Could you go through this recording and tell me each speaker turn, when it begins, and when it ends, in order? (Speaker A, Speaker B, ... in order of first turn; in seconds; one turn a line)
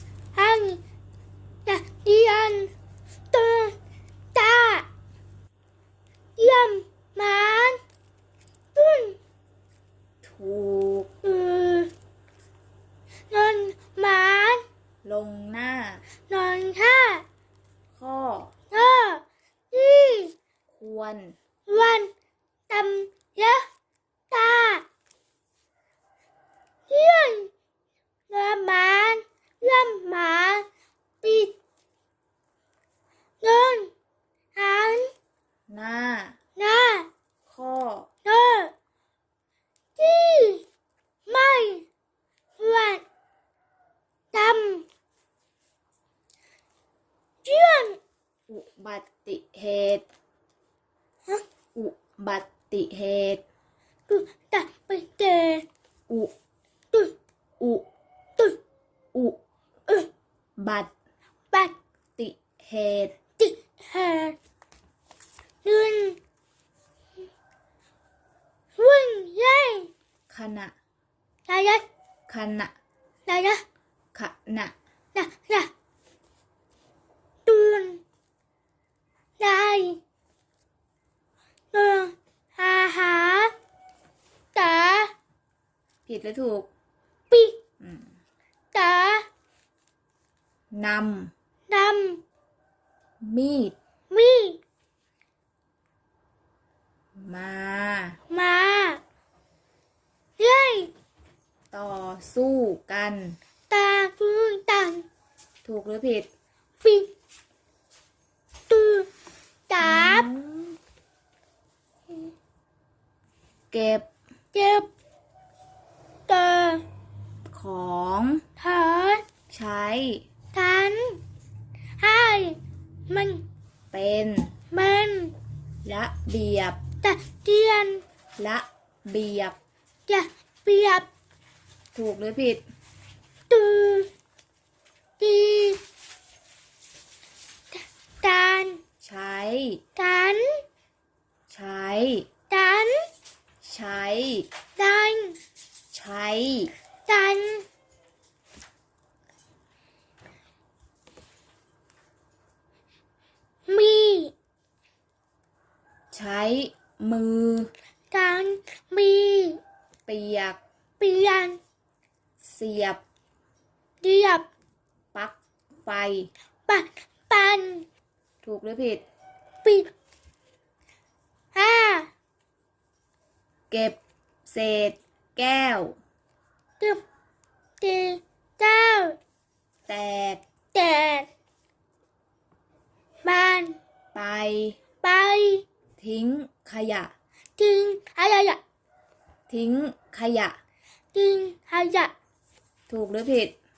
Speaker A: 0.3-0.8
Speaker A: 1.7-2.7
Speaker A: 3.3-3.8
Speaker A: 4.3-4.9
Speaker A: 6.4-7.8
Speaker A: 8.8-9.2
Speaker B: 10.2-11.1
Speaker A: 11.2-11.9
Speaker A: 13.3-14.6
Speaker B: 15.0-16.0
Speaker A: 16.3-17.2
Speaker B: 17.9-18.5
Speaker A: 18.7-20.3
Speaker B: 20.7-21.4
Speaker A: 21.7-22.1
Speaker A: 22.7-23.7
Speaker A: 24.3-24.9
Speaker A: 26.9-27.5
Speaker A: 28.3-30.7
Speaker A: 31.2-31.6
Speaker A: 33.4-33.9
Speaker A: 34.5-35.1
Speaker B: 35.7-36.4
Speaker A: 36.6-37.1
Speaker B: 37.5-38.1
Speaker A: 38.2-38.7
Speaker A: 40.0-40.6
Speaker A: 41.3-41.9
Speaker A: 42.6-43.0
Speaker A: 44.3-44.9
Speaker A: 47.4-48.0
Speaker B: 48.5-50.1
Speaker B: 51.8-53.4
Speaker A: 54.1-55.6
Speaker B: 57.6-57.9
Speaker B: 59.1-59.4
Speaker B: 60.6-60.9
Speaker B: 62.2-63.1
Speaker A: 63.4-64.4
Speaker A: 65.6-66.2
Speaker A: 68.8-69.9
Speaker B: 70.3-70.7
Speaker A: 71.5-71.8
Speaker B: 72.3-72.7
Speaker A: 73.3-73.6
Speaker B: 74.1-74.8
Speaker A: 75.1-75.7
Speaker A: 77.5-78.0
Speaker A: 79.4-80.0
Speaker A: 81.7-83.5
Speaker A: 84.5-85.1
Speaker B: 86.1-86.7
Speaker A: 87.3-87.6
Speaker B: 87.8-88.1
Speaker A: 88.7-89.3
Speaker B: 90.7-91.3
Speaker A: 91.7-92.2
Speaker B: 93.2-93.8
Speaker A: 94.1-94.6
Speaker B: 97.2-98.2
Speaker A: 98.3-99.0
Speaker A: 100.4-100.9
Speaker B: 101.7-103.4
Speaker A: 103.7-105.1
Speaker B: 105.7-106.3
Speaker A: 106.8-107.1
Speaker A: 108.7-109.1
Speaker A: 109.7-110.3
Speaker B: 109.8-110.8
Speaker B: 113.7-114.1
Speaker A: 114.5-114.9
Speaker A: 116.3-116.8
Speaker B: 117.5-118.4
Speaker A: 118.6-119.2
Speaker B: 119.5-120.2
Speaker A: 120.5-121.2
Speaker A: 122.0-122.6
Speaker A: 123.1-123.4
Speaker B: 123.9-124.5
Speaker A: 124.7-125.3
Speaker B: 125.8-126.8
Speaker A: 127.0-128.0
Speaker B: 128.4-129.6
Speaker A: 130.1-131.1
Speaker B: 131.9-132.6
Speaker A: 133.5-134.1
Speaker A: 135.2-135.8
Speaker A: 138.2-138.8
Speaker B: 139.0-139.8
Speaker A: 140.0-140.6
Speaker B: 141.5-142.3
Speaker A: 142.5-143.1
Speaker B: 143.6-144.5
Speaker A: 144.8-145.4
Speaker B: 145.9-146.7
Speaker A: 147.1-147.7
Speaker A: 153.7-154.3
Speaker B: 156.1-157.7
Speaker A: 158.1-159.6
Speaker B: 160.1-160.6
Speaker A: 161.0-161.6
Speaker B: 162.4-163.0
Speaker A: 164.0-164.5
Speaker B: 165.1-166.3
Speaker A: 166.7-167.9
Speaker B: 168.4-169.0
Speaker A: 169.6-169.9
Speaker A: 171.5-172.1
Speaker B: 173.7-176.0
Speaker A: 177.8-179.2
Speaker B: 179.9-180.4
Speaker A: 180.7-181.3
Speaker A: 183.2-183.8
Speaker B: 184.1-184.8
Speaker A: 185.0-185.7
Speaker B: 186.0-187.1
Speaker A: 187.6-188.6
Speaker B: 189.5-190.6
Speaker A: 191.1-192.1
Speaker B: 192.9-193.6